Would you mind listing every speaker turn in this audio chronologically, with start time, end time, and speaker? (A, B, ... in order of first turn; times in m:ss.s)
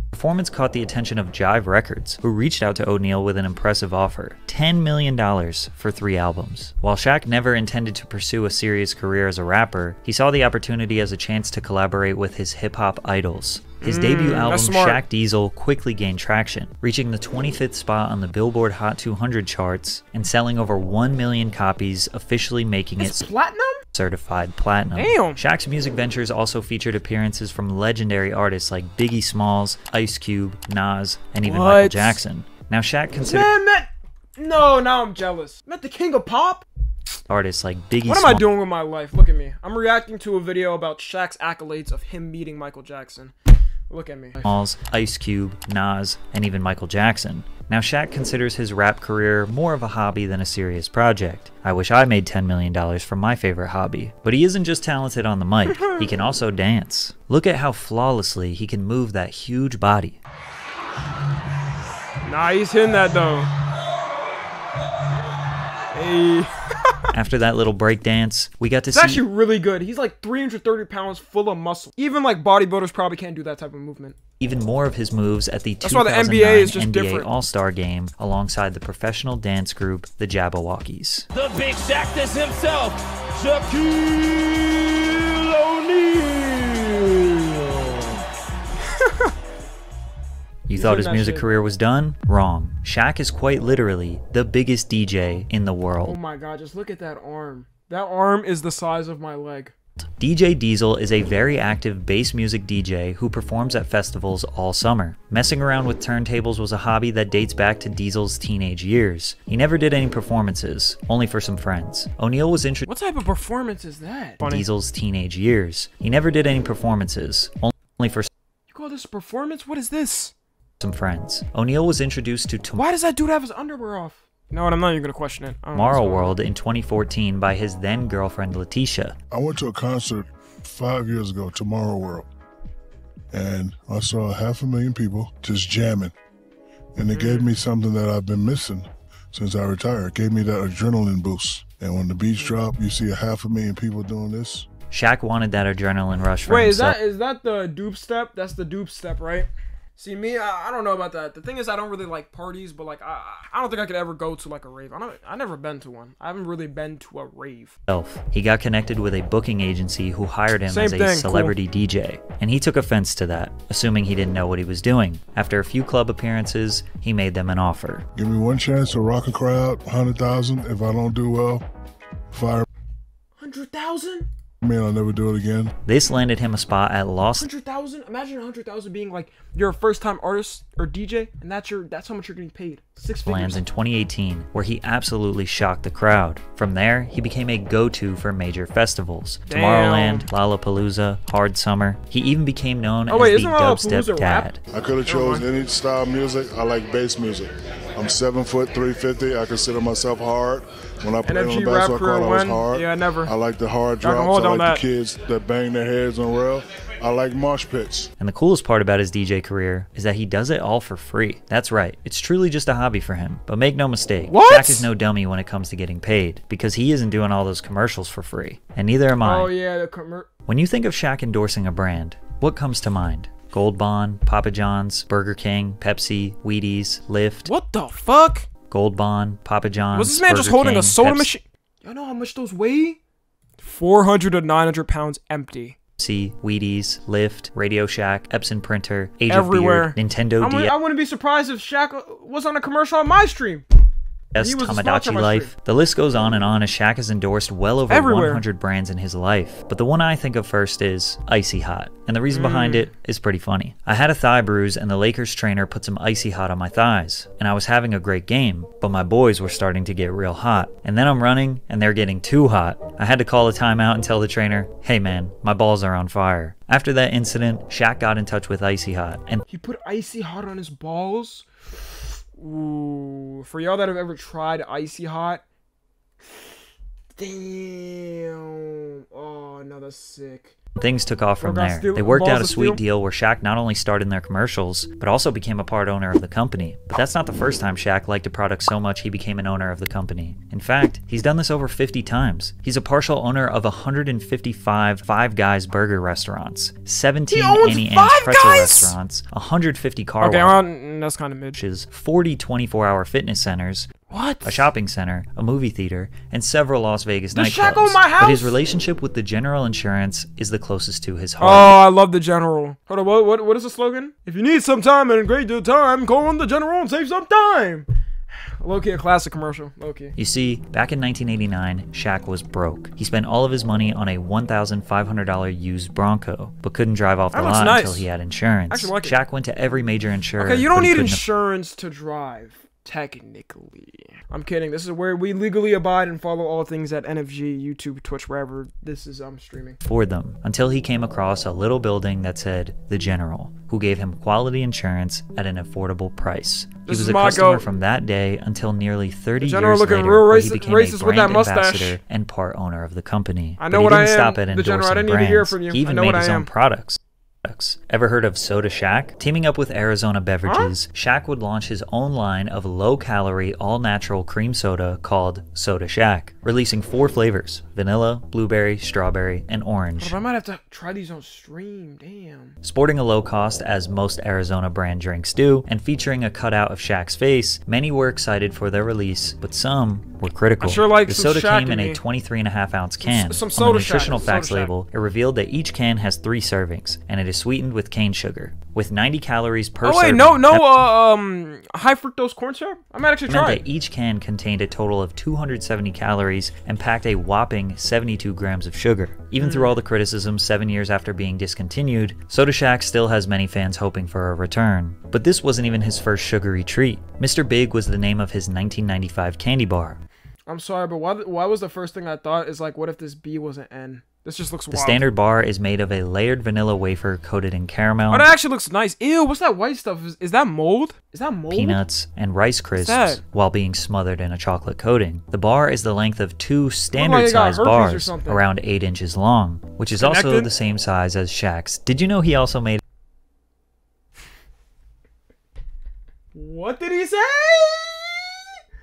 0:00.1-0:23.3 A
0:13.8-0:15.0 B
0:23.0-0:23.8 B
0:23.9-0:33.5 A
0:25.0-0:25.4 B
0:31.4-0:32.2 B
0:33.2-0:36.6 B
0:37.3-0:38.4 A
0:38.0-0:43.3 B
0:43.9-0:44.5 B
0:44.4-1:00.2 A
0:55.7-0:56.0 B
1:02.2-1:03.5 B
1:05.9-1:07.1 B
1:07.1-1:09.2 A
1:08.9-1:14.2 B
1:14.4-1:21.3 A
1:15.8-1:17.3 B
1:21.3-1:27.2 C
1:27.3-1:27.6 B
1:28.8-1:29.3 B
1:30.7-1:36.2 A
1:30.7-1:31.5 B
1:36.0-1:39.7 B
1:40.2-1:52.9 A
1:52.9-1:54.6 B
1:54.4-1:58.3 A
1:58.7-2:00.3 B
2:00.8-2:02.9 A
2:02.8-2:06.3 B
2:05.7-2:09.1 A
2:09.3-2:12.3 D
2:13.3-2:16.1 D
2:16.9-2:24.7 D
2:17.1-2:17.5 B
2:24.9-2:27.0 A
2:26.4-2:37.8 B
2:37.9-2:48.1 A
2:40.7-2:41.5 B
2:48.1-2:51.6 D
2:52.3-2:52.6 D
2:53.4-2:54.3 B
2:54.6-2:55.7 D
2:55.8-2:57.5 A
2:57.4-3:03.6 B
3:03.2-3:14.6 A
3:09.5-3:10.3 B
3:13.1-3:14.5 B
3:14.7-3:28.1 D
3:15.1-3:15.4 B
3:21.2-3:23.3 B
3:24.0-3:24.8 B
3:28.2-3:39.5 A
3:34.3-3:34.9 B
3:39.2-3:40.3 B
3:40.4-3:47.5 A
3:47.4-3:48.5 B
3:48.7-3:51.3 A
3:49.9-3:53.0 B
3:53.6-3:55.8 B
3:56.0-4:00.7 A
3:59.3-4:03.6 B
4:04.3-4:29.4 A
4:04.4-4:05.5 B
4:07.9-4:08.4 B
4:12.3-4:12.9 B
4:29.5-4:31.4 B
4:32.3-4:35.4 B
4:37.2-4:40.6 B
4:40.8-5:00.6 A
4:41.4-4:42.8 B
4:57.3-4:58.9 B
5:00.2-5:01.6 B
5:01.5-5:11.7 A
5:04.1-5:04.7 B
5:07.3-5:08.5 B
5:11.4-5:17.9 B
5:18.6-5:20.2 B
5:20.2-5:31.2 A
5:27.3-5:28.0 B
5:28.7-5:29.1 B
5:30.4-5:39.8 B
5:39.8-6:10.2 A
5:46.8-5:47.6 B
5:49.4-5:52.0 B
5:53.6-5:56.5 B
6:00.4-6:00.7 B
6:10.0-6:12.6 B
6:12.6-6:30.8 A
6:20.6-6:22.0 B
6:23.0-6:24.7 B
6:29.8-6:33.6 B
6:33.3-6:50.0 A
6:39.4-6:39.8 B
6:50.5-6:55.0 B
6:54.7-6:58.3 A
6:58.1-7:01.8 B
7:01.5-7:12.8 A
7:02.8-7:03.2 B
7:06.9-7:08.4 B
7:10.0-7:10.5 B
7:16.3-7:18.4 B